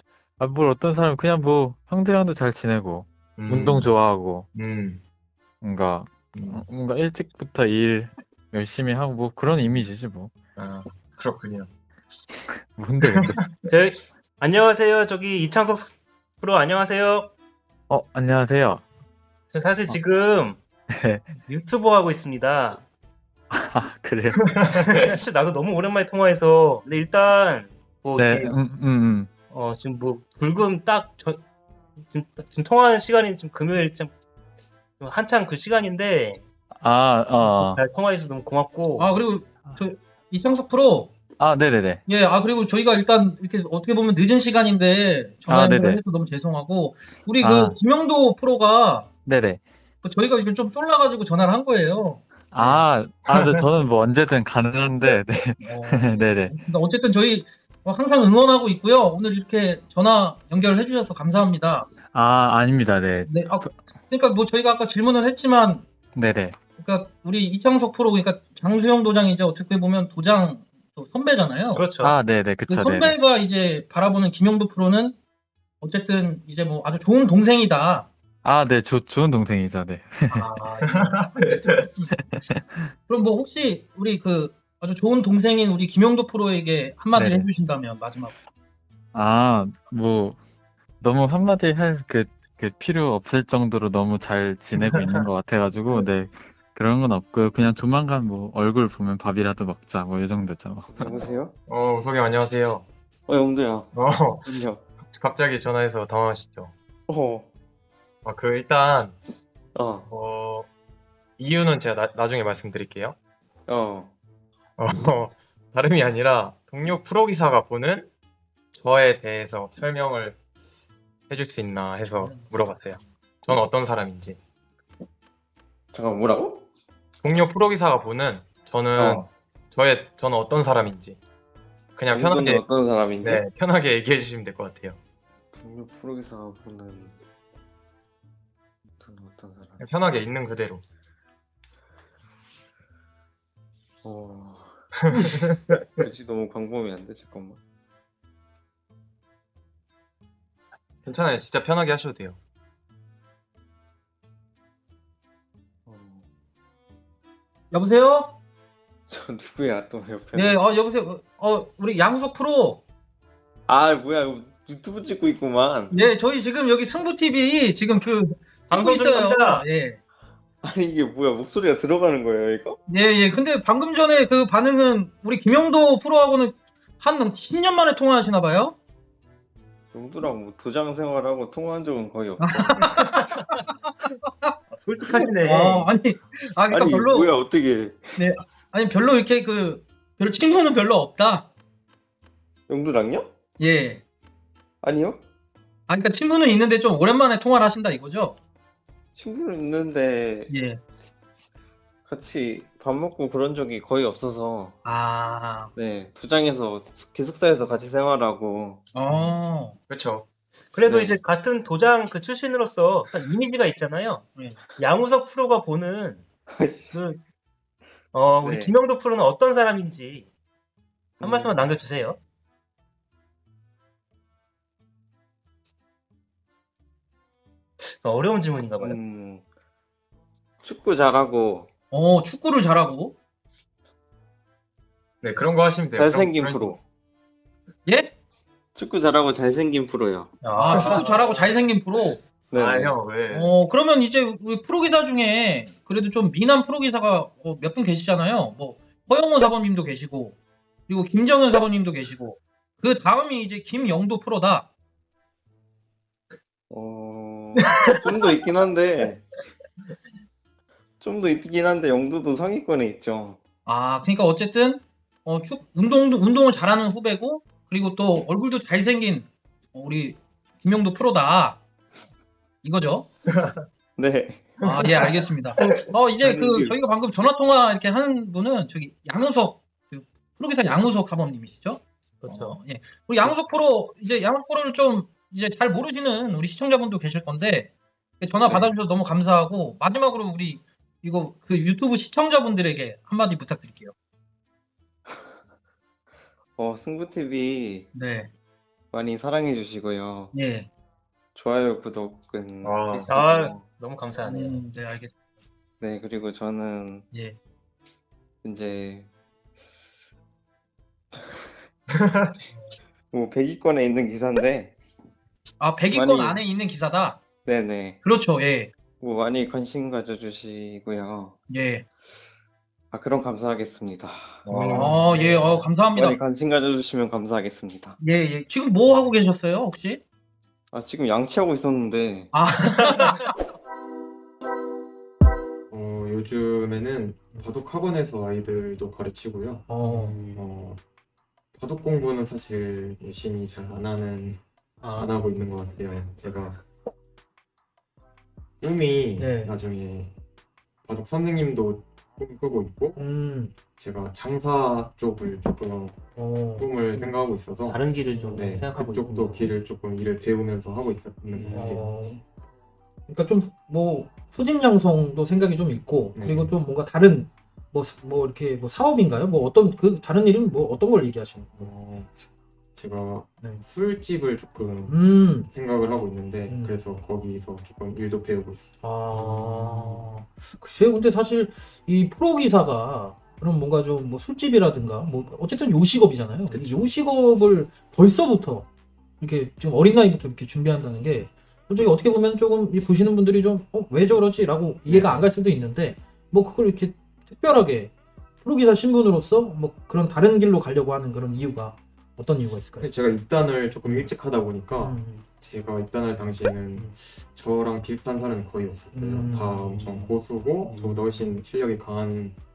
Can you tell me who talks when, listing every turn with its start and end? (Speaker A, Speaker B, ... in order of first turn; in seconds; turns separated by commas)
Speaker A: 0.4-4.5, Speaker B: 3.4-3.9, Speaker B: 4.6-5.0, Speaker A: 5.6-10.3, Speaker B: 6.4-6.6, Speaker B: 10.6-11.7, Speaker A: 12.4-13.5, Speaker C: 13.7-17.3, Speaker A: 17.9-18.9, Speaker C: 19.5-20.6, Speaker A: 20.9-21.3, Speaker C: 21.5-22.9, Speaker A: 23.5-24.9, Speaker C: 24.7-28.6, Speaker A: 28.1-29.3, Speaker C: 29.5-31.4, Speaker C: 32.0-34.1, Speaker C: 35.0-36.4, Speaker A: 36.8-37.9, Speaker C: 37.4-39.1, Speaker D: 39.0-41.1, Speaker A: 41.4-42.0, Speaker D: 42.1-49.1, Speaker A: 45.5-46.0, Speaker A: 47.4-47.8, Speaker A: 49.2-49.6, Speaker D: 50.0-52.9, Speaker A: 52.5-56.5, Speaker D: 55.6-61.9, Speaker A: 62.0-63.8, Speaker D: 63.3-65.8, Speaker A: 66.2-66.6, Speaker D: 66.8-71.8, Speaker C: 71.7-72.2, Speaker A: 72.0-73.2, Speaker D: 72.7-75.2, Speaker D: 75.8-78.1, Speaker A: 78.4-80.9, Speaker D: 80.3-82.0, Speaker A: 82.1-82.8, Speaker D: 83.1-88.3, Speaker A: 87.1-87.5, Speaker A: 89.1-90.4, Speaker A: 91.0-101.3, Speaker B: 94.8-95.1, Speaker E: 100.9-101.5, Speaker B: 101.7-102.8, Speaker E: 103.3-103.9, Speaker B: 104.0-104.5, Speaker E: 104.4-104.8, Speaker B: 105.1-106.7, Speaker E: 107.1-107.5, Speaker B: 108.2-109.2, Speaker E: 109.8-110.1, Speaker B: 110.1-110.7, Speaker B: 111.4-113.2, Speaker E: 113.7-114.1, Speaker B: 114.8-118.1, Speaker B: 118.8-120.4, Speaker B: 121.3-124.4, Speaker E: 125.9-126.7, Speaker B: 127.2-131.2, Speaker E: 129.0-129.3, Speaker B: 132.0-132.6, Speaker E: 132.1-133.4, Speaker B: 133.2-135.0, Speaker E: 135.6-137.2, Speaker E: 139.0-139.8, Speaker B: 139.8-140.8, Speaker E: 144.0-144.8, Speaker E: 145.9-147.6, Speaker B: 151.0-152.4, Speaker E: 155.9-156.2, Speaker D: 157.7-158.3, Speaker E: 159.1-160.6, Speaker D: 160.3-162.8, Speaker E: 163.7-166.0, Speaker D: 165.9-170.0, Speaker C: 168.7-169.7, Speaker E: 170.6-172.8, Speaker D: 172.9-178.8, Speaker E: 179.9-183.0, Speaker D: 182.4-183.4, Speaker C: 184.8-185.9, Speaker D: 185.1-187.3, Speaker E: 186.7-188.3, Speaker D: 188.2-191.5, Speaker E: 192.7-193.3, Speaker D: 193.6-194.0, Speaker E: 194.8-195.2, Speaker D: 195.9-198.4, Speaker E: 199.2-200.6, Speaker D: 200.5-200.8, Speaker E: 202.1-204.8, Speaker D: 204.8-205.7, Speaker E: 205.8-209.2, Speaker D: 208.9-209.8, Speaker B: 209.9-210.2, Speaker C: 210.7-214.3, Speaker E: 210.9-211.2, Speaker C: 214.8-216.2, Speaker E: 216.5-217.0, Speaker C: 216.9-217.2, Speaker C: 218.1-220.3, Speaker E: 218.4-218.7, Speaker E: 221.2-221.7, Speaker C: 221.2-222.2, Speaker C: 227.8-229.0, Speaker E: 228.8-229.4, Speaker E: 230.6-231.7, Speaker D: 231.9-233.1, Speaker B: 235.2-236.7, Speaker E: 236.0-236.8, Speaker D: 237.9-238.1, Speaker E: 238.8-241.1, Speaker B: 240.4-241.1, Speaker D: 240.5-242.2, Speaker E: 242.5-243.0, Speaker B: 242.5-243.5, Speaker D: 243.3-250.4, Speaker D: 250.9-254.7, Speaker E: 256.7-259.3, Speaker E: 261.0-263.4, Speaker D: 263.7-271.6, Speaker D: 272.6-273.1, Speaker E: 274.0-274.6, Speaker D: 274.6-293.9, Speaker E: 276.2-276.8, Speaker C: 282.3-282.5, Speaker E: 296.6-297.9, Speaker D: 297.9-298.3, Speaker E: 298.9-300.3, Speaker D: 300.3-300.7, Speaker E: 301.4-303.6, Speaker B: 302.6-303.1, Speaker C: 303.1-304.6, Speaker D: 304.2-305.1, Speaker E: 305.8-307.1, Speaker E: 308.4-309.1, Speaker E: 311.1-311.5, Speaker E: 313.1-314.8, Speaker D: 315.6-317.2, Speaker E: 315.9-316.4, Speaker E: 317.4-318.0, Speaker D: 318.0-318.7, Speaker E: 319.0-321.4, Speaker D: 321.5-321.8, Speaker E: 322.9-324.5, Speaker B: 324.5-325.0, Speaker D: 324.5-326.2, Speaker C: 324.9-325.7, Speaker E: 325.9-328.0, Speaker D: 328.0-330.0, Speaker E: 330.7-332.3, Speaker D: 332.3-333.3, Speaker B: 335.7-339.7, Speaker D: 339.7-340.2, Speaker C: 339.8-340.5, Speaker B: 340.3-340.8, Speaker B: 341.6-344.4, Speaker C: 344.8-345.2, Speaker B: 344.9-346.6, Speaker B: 348.6-350.1, Speaker D: 349.2-349.5, Speaker B: 350.9-353.0, Speaker D: 353.0-353.5, Speaker B: 353.8-361.9, Speaker D: 356.1-357.1, Speaker C: 357.6-359.6, Speaker D: 358.1-358.5, Speaker C: 361.3-361.9, Speaker D: 361.5-362.2, Speaker D: 363.1-371.7, Speaker B: 366.1-366.5, Speaker B: 371.6-372.1, Speaker B: 372.8-379.9, Speaker D: 374.9-375.5, Speaker D: 376.5-376.8, Speaker D: 378.8-388.7, Speaker C: 379.1-380.1, Speaker D: 389.2-402.9, Speaker B: 394.9-395.2, Speaker B: 402.8-412.4, Speaker D: 404.8-405.2, Speaker D: 408.9-410.1, Speaker C: 410.7-411.3